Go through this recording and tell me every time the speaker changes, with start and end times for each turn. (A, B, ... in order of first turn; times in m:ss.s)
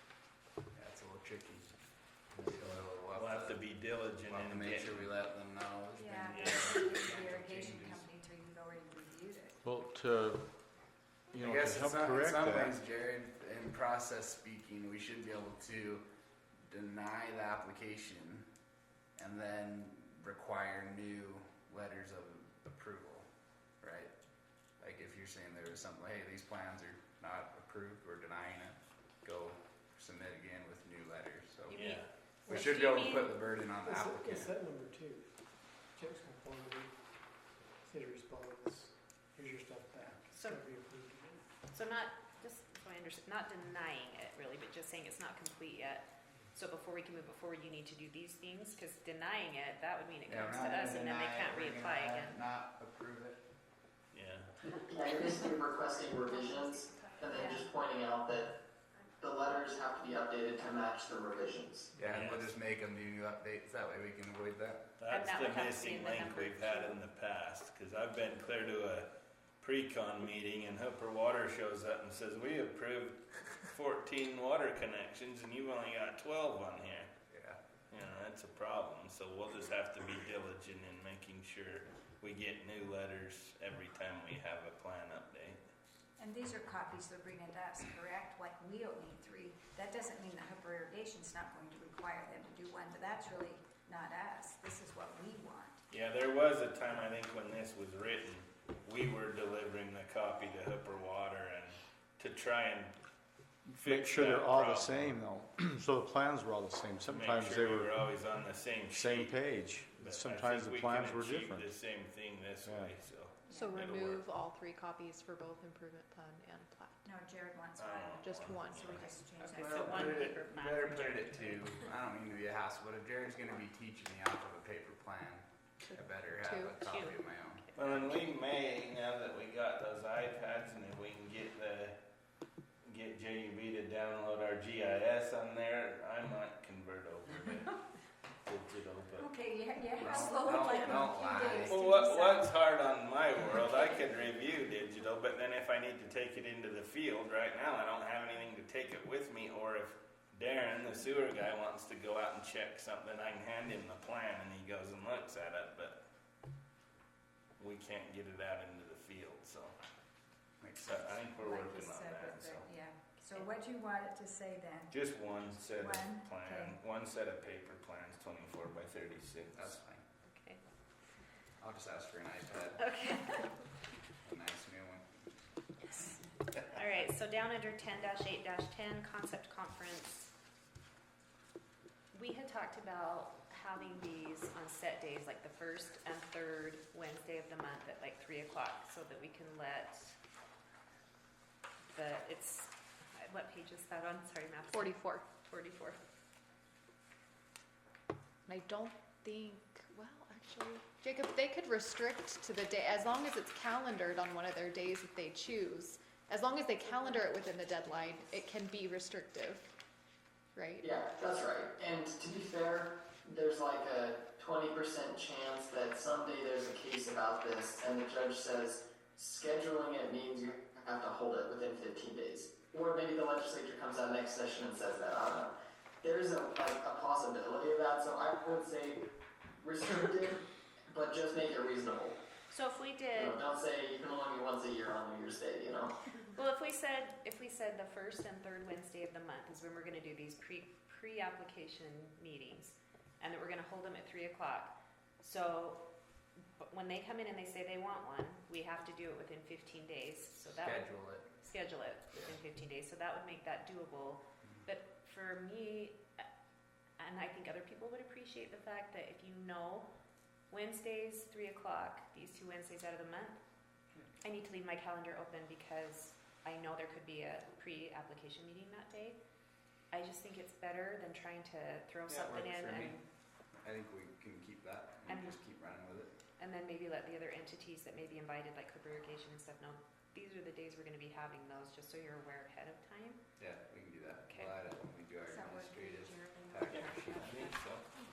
0:00.7-0:01.7 A
0:02.4-0:03.6 A
0:03.1-0:05.1 B
0:04.3-0:08.0 A
0:06.0-0:09.6 C
0:06.3-0:07.7 B
0:09.6-0:10.5 D
0:11.3-0:12.8 D
0:11.3-0:16.0 A
0:16.7-0:18.4 A
0:19.2-0:23.2 A
0:23.8-0:24.1 A
0:24.8-0:31.8 A
0:31.7-0:33.4 E
0:31.7-0:32.0 B
0:32.4-0:34.5 A
0:33.8-0:37.0 F
0:37.8-0:41.4 F
0:40.3-0:40.6 E
0:41.7-0:52.4 E
0:50.3-0:53.4 A
0:54.1-0:54.5 B
0:54.9-0:58.6 G
0:57.3-0:57.7 E
0:59.2-1:01.9 G
1:02.0-1:04.9 A
1:02.0-1:02.5 B
1:05.0-1:09.1 B
1:05.1-1:07.0 E
1:09.6-1:17.1 B
1:17.3-1:17.6 A
1:17.9-1:25.6 B
1:26.2-1:35.8 C
1:35.9-1:42.9 B
1:43.6-1:48.0 D
1:43.8-1:45.2 B
1:47.1-1:54.2 B
1:48.9-1:51.8 D
1:52.6-1:53.0 D
1:53.5-1:53.8 C
1:53.5-1:57.1 H
1:57.0-2:00.2 C
1:57.8-1:59.2 B
1:58.2-1:59.1 H
1:59.4-2:01.8 E
1:59.6-2:07.6 A
2:05.9-2:06.8 H
2:06.8-2:08.2 E
2:07.8-2:12.0 B
2:12.8-2:17.8 B
2:18.4-2:19.3 B
2:19.2-2:22.4 C
2:20.0-2:21.8 A
2:20.0-2:20.5 B
2:21.6-2:36.0 B
2:37.6-2:39.7 B
2:40.6-2:41.2 A
2:40.8-2:42.7 B
2:41.3-2:44.9 C
2:44.9-2:49.7 B
2:45.7-2:46.7 C
2:49.5-2:50.0 A
2:50.3-2:50.6 E
2:51.6-2:52.9 A
2:52.8-2:53.5 E
2:54.2-2:55.2 A
2:55.8-3:00.3 E
3:02.1-3:10.2 E
3:11.9-3:16.0 E
3:14.7-3:15.3 H
3:18.5-3:29.7 H
3:30.6-3:30.8 H
3:30.8-3:49.0 G
3:49.6-3:52.2 G
3:52.5-3:53.4 E
3:53.1-3:55.9 G
3:56.3-4:05.8 E
4:06.6-4:16.2 E
4:10.6-4:11.3 A
4:17.0-4:19.9 E
4:20.5-4:23.4 E
4:24.2-4:29.2 E
4:29.9-4:33.0 E
4:32.1-4:33.0 A
4:33.6-4:36.1 A
4:35.1-4:35.4 E
4:36.4-4:43.2 E
4:43.4-4:47.4 A
4:44.3-4:44.5 E
4:45.3-4:47.6 C
4:46.7-4:47.8 B